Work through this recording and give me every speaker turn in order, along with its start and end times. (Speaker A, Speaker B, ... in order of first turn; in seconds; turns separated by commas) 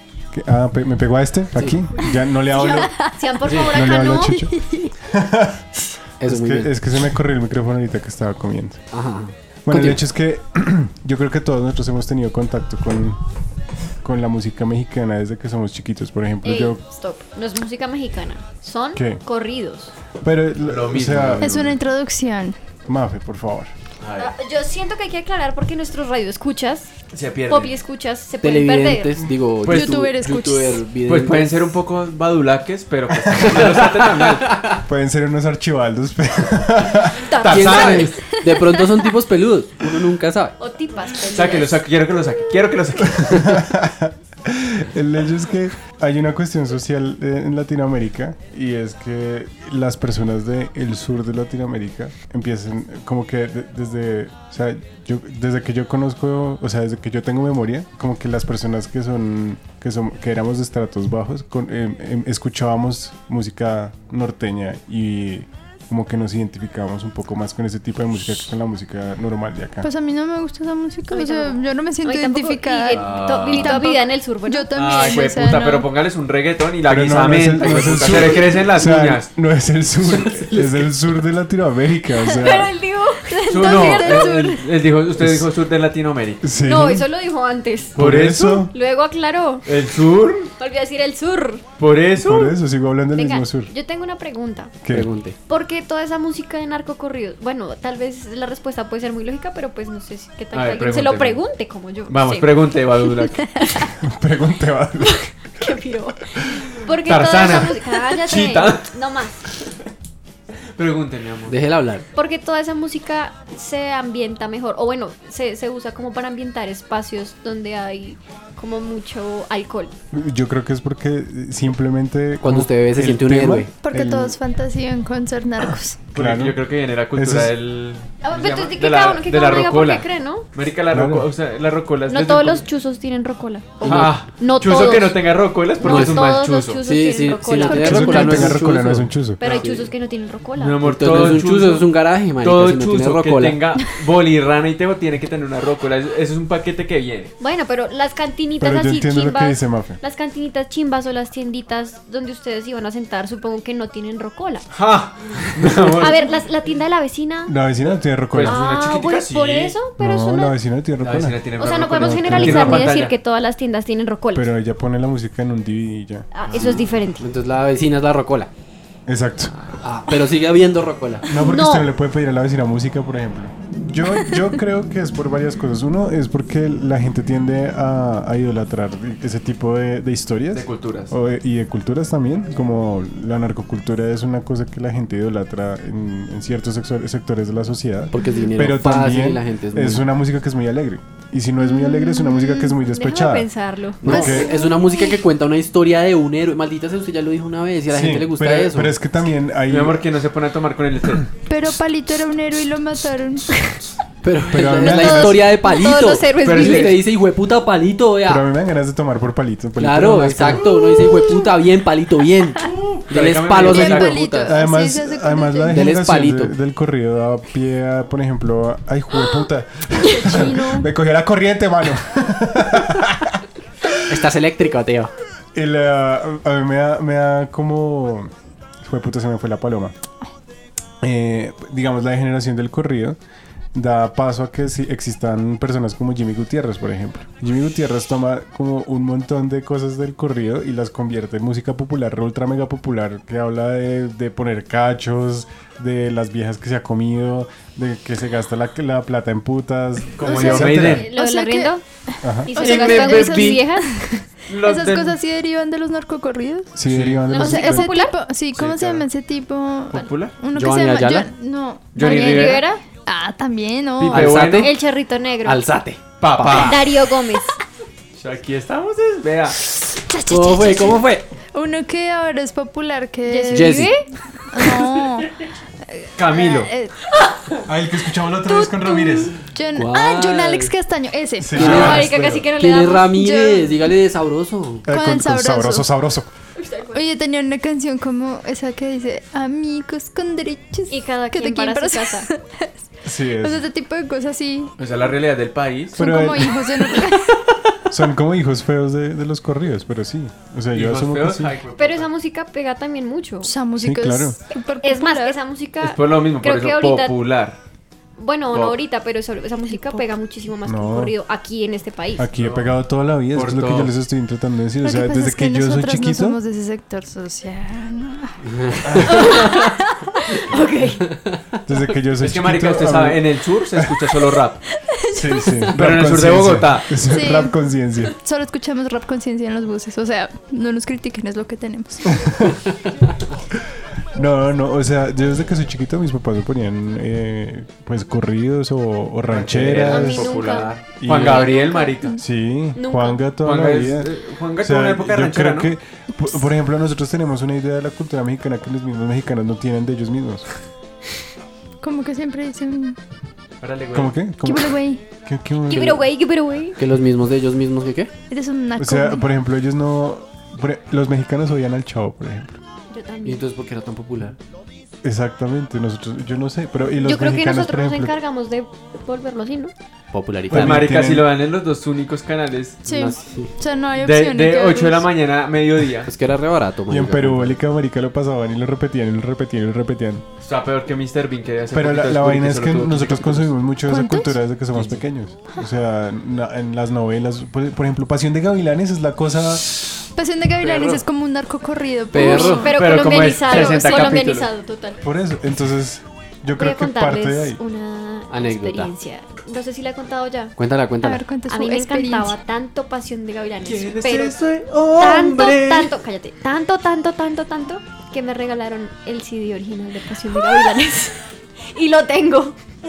Speaker A: 0.3-5.7, Speaker B: 1.5-1.9, Speaker C: 2.5-4.5, Speaker D: 2.7-3.1, Speaker E: 3.4-3.7, Speaker D: 4.5-4.9, Speaker B: 6.2-6.7, Speaker A: 6.2-8.8, Speaker B: 8.9-10.0, Speaker A: 9.7-13.2, Speaker A: 14.0-16.8, Speaker C: 16.4-19.9, Speaker A: 18.9-19.2, Speaker A: 20.2-21.7, Speaker E: 20.6-21.6, Speaker D: 21.4-22.6, Speaker A: 22.9-23.7, Speaker E: 24.0-24.3, Speaker C: 24.2-26.9, Speaker E: 27.1-27.8, Speaker C: 27.5-29.2, Speaker B: 28.4-31.6, Speaker E: 29.6-30.0, Speaker D: 29.7-30.9, Speaker E: 31.1-34.6, Speaker B: 33.4-34.8, Speaker A: 34.8-37.4, Speaker C: 37.2-38.6, Speaker E: 37.4-38.1, Speaker B: 37.4-40.5, Speaker C: 40.6-41.8, Speaker E: 41.2-43.6, Speaker A: 43.2-69.9, Speaker D: 69.8-75.9, Speaker C: 71.1-75.3, Speaker E: 72.9-73.8, Speaker E: 74.7-79.3, Speaker A: 76.8-82.7, Speaker C: 77.7-78.2, Speaker E: 80.1-80.9, Speaker C: 82.3-84.4, Speaker D: 83.3-84.7, Speaker E: 83.5-86.4, Speaker A: 85.2-85.5, Speaker A: 86.4-87.1, Speaker C: 86.6-88.0, Speaker E: 88.0-88.7, Speaker A: 88.0-88.7, Speaker C: 88.7-89.7, Speaker E: 89.6-90.5, Speaker C: 90.6-91.6, Speaker E: 91.8-92.5, Speaker A: 92.2-93.7, Speaker C: 93.1-94.8, Speaker B: 94.9-95.3, Speaker C: 95.5-102.7, Speaker E: 100.5-101.4, Speaker E: 102.1-103.6, Speaker C: 103.6-103.9, Speaker A: 104.0-105.3, Speaker C: 105.1-109.4, Speaker E: 107.0-108.9, Speaker E: 110.8-111.6, Speaker B: 111.5-112.0, Speaker C: 112.1-119.9, Speaker A: 120.1-124.3, Speaker B: 122.4-123.7, Speaker D: 123.8-126.0, Speaker A: 126.1-126.6, Speaker E: 126.1-132.7, Speaker A: 127.1-127.5, Speaker C: 128.2-130.4, Speaker A: 130.9-131.3, Speaker C: 132.1-135.2, Speaker B: 133.8-134.3, Speaker E: 133.8-136.8, Speaker C: 135.8-138.5, Speaker B: 135.8-139.8, Speaker D: 137.6-138.6, Speaker A: 137.8-139.4, Speaker C: 139.4-140.8, Speaker E: 139.4-139.9, Speaker E: 140.6-147.3, Speaker B: 140.8-143.6, Speaker C: 147.4-154.7, Speaker A: 148.6-150.0, Speaker E: 154.7-156.3, Speaker C: 155.8-157.5, Speaker A: 157.4-158.7, Speaker E: 158.3-159.8, Speaker C: 158.4-160.6, Speaker A: 160.0-163.0, Speaker E: 161.0-163.1, Speaker C: 161.6-164.5, Speaker A: 164.3-166.3, Speaker C: 166.3-167.3, Speaker E: 166.5-166.9, Speaker B: 166.7-168.5, Speaker A: 169.1-169.5, Speaker B: 169.8-171.3, Speaker A: 171.2-193.5, Speaker C: 171.3-171.9, Speaker E: 180.5-181.1, Speaker B: 188.1-190.1, Speaker C: 191.7-195.1, Speaker B: 194.0-199.0, Speaker A: 194.1-194.5, Speaker A: 197.9-200.1, Speaker E: 199.7-201.3, Speaker D: 201.5-203.8, Speaker B: 204.2-208.4, Speaker A: 204.5-205.6, Speaker C: 205.0-207.0, Speaker E: 206.4-207.0, Speaker A: 208.2-210.7, Speaker B: 209.8-214.5, Speaker E: 212.6-214.2, Speaker D: 213.6-215.9, Speaker A: 214.4-224.2, Speaker B: 215.7-216.5, Speaker C: 219.1-219.4, Speaker C: 220.0-220.6, Speaker D: 220.2-220.8, Speaker B: 224.1-225.1, Speaker A: 225.5-228.3, Speaker A: 228.8-229.9, Speaker A: 231.0-233.2, Speaker A: 233.7-251.1, Speaker E: 250.1-251.1, Speaker D: 250.2-251.8, Speaker C: 250.5-251.8, Speaker A: 252.2-252.6, Speaker C: 252.4-253.9, Speaker D: 252.5-256.7, Speaker E: 252.6-253.7, Speaker E: 254.5-255.2, Speaker A: 256.7-257.9, Speaker E: 256.9-257.3, Speaker C: 257.3-258.1, Speaker D: 257.3-264.3, Speaker E: 258.5-259.1, Speaker E: 259.9-260.4, Speaker B: 260.5-261.3, Speaker E: 261.9-262.6, Speaker C: 262.0-262.8, Speaker E: 264.0-264.7, Speaker B: 264.1-264.7, Speaker C: 264.2-265.6, Speaker B: 265.4-266.9, Speaker E: 266.2-266.9, Speaker C: 266.4-267.5, Speaker E: 268.2-269.6, Speaker D: 270.1-275.3, Speaker B: 270.3-271.3, Speaker C: 273.2-274.1, Speaker B: 273.5-273.9, Speaker D: 275.9-276.9, Speaker E: 276.1-276.7, Speaker A: 277.6-279.4, Speaker D: 278.6-281.7, Speaker B: 279.8-280.7, Speaker A: 281.4-282.5, Speaker B: 281.5-284.9, Speaker E: 281.6-281.9, Speaker C: 281.6-283.2, Speaker D: 283.1-283.9, Speaker A: 284.9-286.3, Speaker D: 284.9-285.9, Speaker C: 286.6-287.0, Speaker D: 286.9-292.7, Speaker C: 290.9-292.3, Speaker A: 293.0-293.6, Speaker D: 293.4-294.7, Speaker E: 294.8-296.0, Speaker D: 295.9-297.5, Speaker A: 296.0-296.6, Speaker A: 297.9-301.5, Speaker E: 300.7-302.1, Speaker C: 301.8-303.5, Speaker D: 303.4-305.4, Speaker A: 303.8-304.4, Speaker C: 304.8-307.2, Speaker E: 305.8-307.6, Speaker C: 308.2-312.3, Speaker E: 308.5-308.8, Speaker D: 309.7-310.0, Speaker A: 310.6-311.1, Speaker A: 312.2-316.4, Speaker E: 312.4-312.8, Speaker E: 313.3-313.9, Speaker D: 314.8-318.4, Speaker B: 318.5-319.5, Speaker A: 318.9-319.2, Speaker C: 319.1-319.7, Speaker C: 320.3-321.1, Speaker A: 321.6-323.9, Speaker E: 322.2-324.6, Speaker D: 324.8-325.7, Speaker A: 325.0-328.1, Speaker E: 325.7-327.0, Speaker D: 327.0-327.6, Speaker D: 328.1-332.2, Speaker A: 332.1-332.5, Speaker A: 334.1-341.6, Speaker E: 339.3-342.2, Speaker C: 339.8-342.2, Speaker A: 342.2-350.4, Speaker C: 342.7-343.2, Speaker E: 343.4-345.7, Speaker D: 351.8-353.0, Speaker E: 353.6-354.2, Speaker A: 353.9-356.1, Speaker D: 354.4-355.0, Speaker C: 355.7-356.8, Speaker B: 356.8-358.1, Speaker D: 358.3-359.2, Speaker A: 358.8-362.6, Speaker C: 362.9-363.4, Speaker B: 363.2-364.4, Speaker A: 365.0-368.2, Speaker C: 367.0-369.7, Speaker B: 370.1-370.9, Speaker A: 370.5-371.3, Speaker E: 370.5-372.9, Speaker D: 372.8-375.1, Speaker B: 372.9-373.5, Speaker E: 373.9-376.1, Speaker B: 376.1-377.6, Speaker A: 376.9-380.2, Speaker E: 380.4-383.5, Speaker A: 381.7-390.0, Speaker D: 383.9-384.3, Speaker D: 390.1-392.8, Speaker B: 390.6-391.0, Speaker B: 392.1-392.7, Speaker C: 392.2-395.0, Speaker E: 392.6-394.5, Speaker D: 393.5-394.2, Speaker A: 395.0-397.6, Speaker C: 396.6-400.6, Speaker B: 398.3-398.9, Speaker B: 400.6-401.3, Speaker D: 401.0-402.4, Speaker C: 401.4-404.4, Speaker E: 403.6-405.9, Speaker C: 404.9-411.2, Speaker C: 411.7-412.6